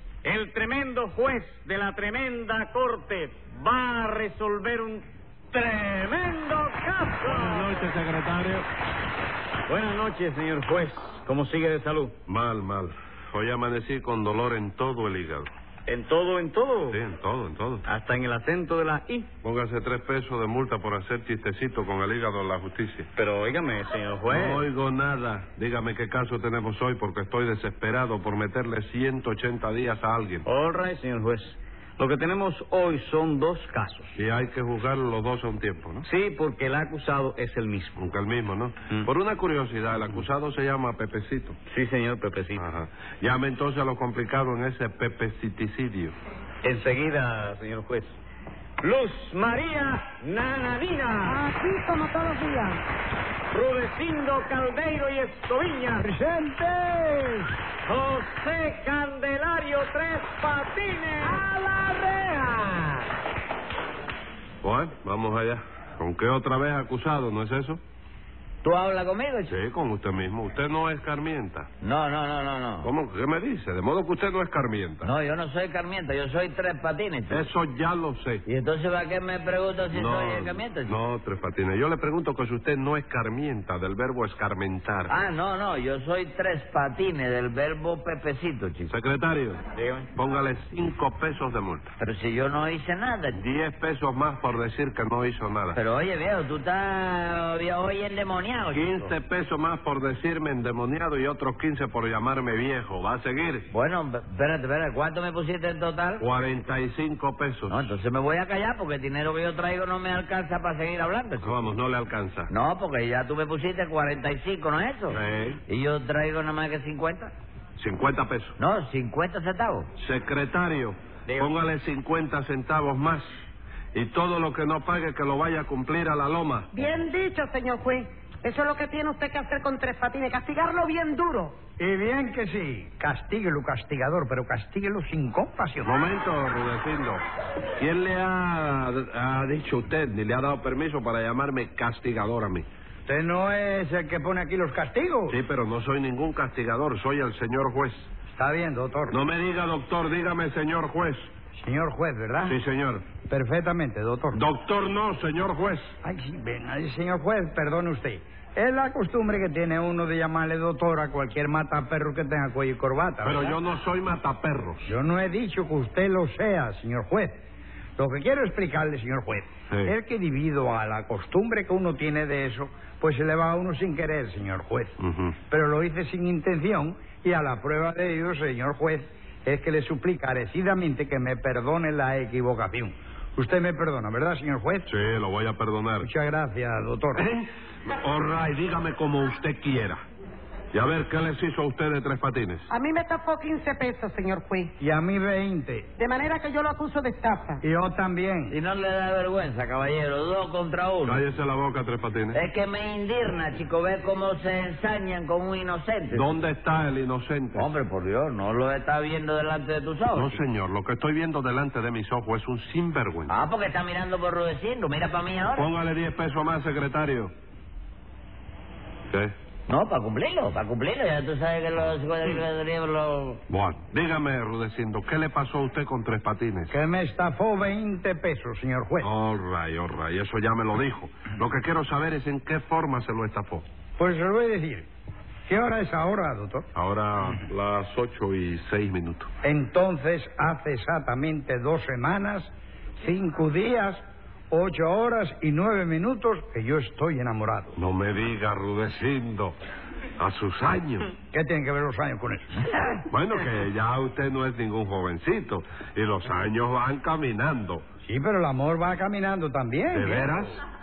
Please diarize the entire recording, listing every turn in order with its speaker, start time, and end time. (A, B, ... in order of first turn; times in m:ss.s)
0:00.2-0:07.9 A
0:07.2-0:08.6 B
0:09.7-0:12.1 A
0:12.3-0:15.5 B
0:15.9-0:17.0 A
0:16.9-0:17.8 B
0:17.8-0:19.3 A
0:19.4-0:23.1 B
0:23.2-0:24.6 A
0:24.3-0:30.4 B
0:30.4-0:34.1 A
0:34.2-0:36.0 B
0:36.0-0:38.0 A
0:38.0-0:41.6 B
0:41.7-0:42.6 A
0:42.5-0:46.2 B
0:46.6-0:48.2 A
0:48.8-0:51.4 A
0:51.2-0:52.8 C
0:53.5-0:56.1 A
0:56.0-0:57.5 D
0:57.8-1:03.0 A
1:04.6-1:07.8 B
1:08.6-1:09.5 E
1:09.5-1:11.7 B
1:11.8-1:12.9 E
1:12.8-1:15.1 B
1:15.0-1:17.5 E
1:17.3-1:18.4 B
1:18.4-1:21.0 E
1:19.9-1:25.1 B
1:25.1-1:28.9 E
1:28.9-1:29.6 B
1:29.8-1:30.1 A
1:30.1-1:31.9 B
1:32.0-1:33.4 E
1:33.3-1:35.8 B
1:35.7-1:39.1 E
1:38.7-1:43.7 B
1:43.7-1:46.2 E
1:46.2-1:47.8 B
1:47.7-1:51.6 E
1:51.4-1:52.5 B
1:52.5-1:57.3 E
1:55.1-1:55.6 B
1:57.8-1:58.5 B
1:58.6-1:59.9 E
2:00.0-2:03.3 B
2:03.9-2:06.7 B
2:06.7-2:11.6 C
2:11.8-2:16.0 D
2:15.8-2:17.2 B
2:17.8-2:22.6 B
2:23.0-2:25.4 D
2:25.3-2:28.1 B
2:28.3-2:29.2 D
2:29.1-2:31.3 B
2:31.6-2:32.6 D
2:32.4-2:33.0 B
2:33.2-2:34.4 D
2:34.3-2:35.9 B
2:36.0-2:43.6 D
2:43.2-2:44.8 B
2:44.8-2:47.4 D
2:48.0-2:55.0 D
2:55.0-2:55.4 B
2:55.5-3:04.9 D
3:04.9-3:06.1 B
3:06.0-3:07.2 D
3:07.1-3:10.0 B
3:10.7-3:12.6 B
3:12.7-3:14.7 C
3:14.8-3:15.9 D
3:16.0-3:17.6 C
3:17.6-3:18.5 D
3:18.5-3:21.2 E
3:21.0-3:22.4 B
3:22.3-3:26.3 E
3:26.1-3:27.7 B
3:27.5-3:30.4 E
3:30.1-3:33.3 B
3:33.3-3:35.7 E
3:35.5-3:37.3 B
3:39.7-3:43.4 E
3:43.5-3:46.7 B
3:46.7-3:49.1 D
3:49.0-3:53.6 B
3:54.0-3:54.9 D
3:55.5-3:56.7 D
3:56.7-3:59.3 B
3:59.4-4:04.0 D
4:04.5-4:07.7 D
4:07.8-4:09.5 B
4:10.2-4:11.1 B
4:11.3-4:12.6 D
4:13.1-4:17.8 B
4:18.0-4:20.4 D
4:19.9-4:20.6 B